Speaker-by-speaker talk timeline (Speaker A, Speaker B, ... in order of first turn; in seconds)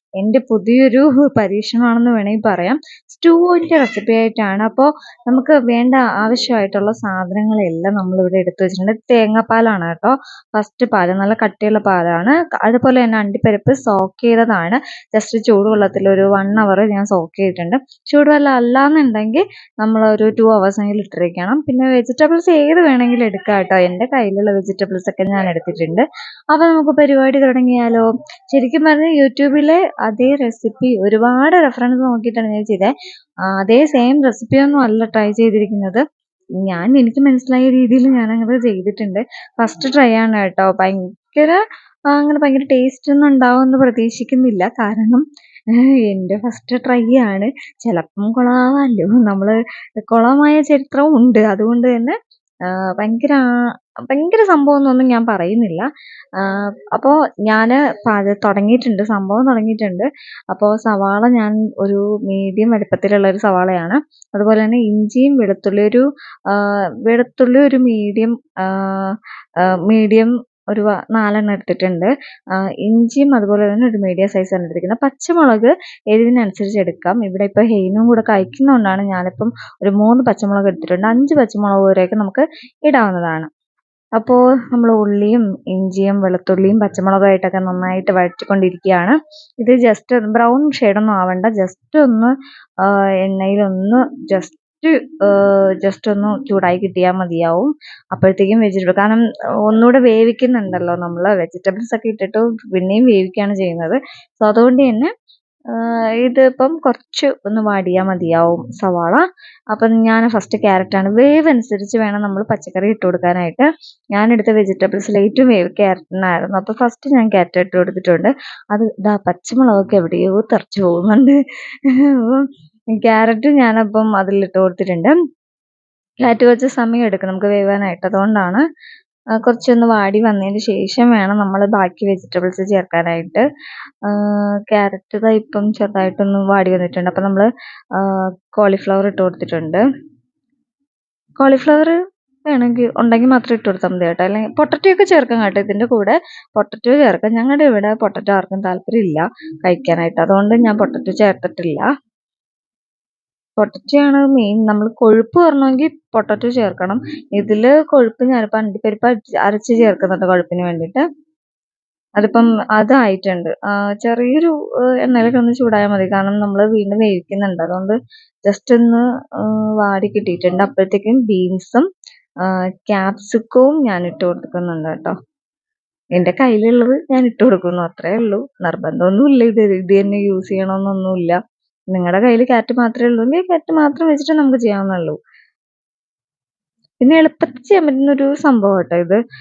Speaker A: 0.2-32.9, 33.5-36.0, 36.6-41.6, 42.1-52.1, 52.7-53.4, 54.1-69.1, 69.9-72.1, 72.8-83.5, 84.2-92.3, 92.8-105.1, 105.7-121.3, 121.9-125.1, 126.2-128.6, 129.4-133.4, 134.1-139.8, 141.4-151.9, 153.6-161.0, 162.2-171.9, 172.4-175.2, 176.2-181.4, 181.9-185.2, 187.0-189.2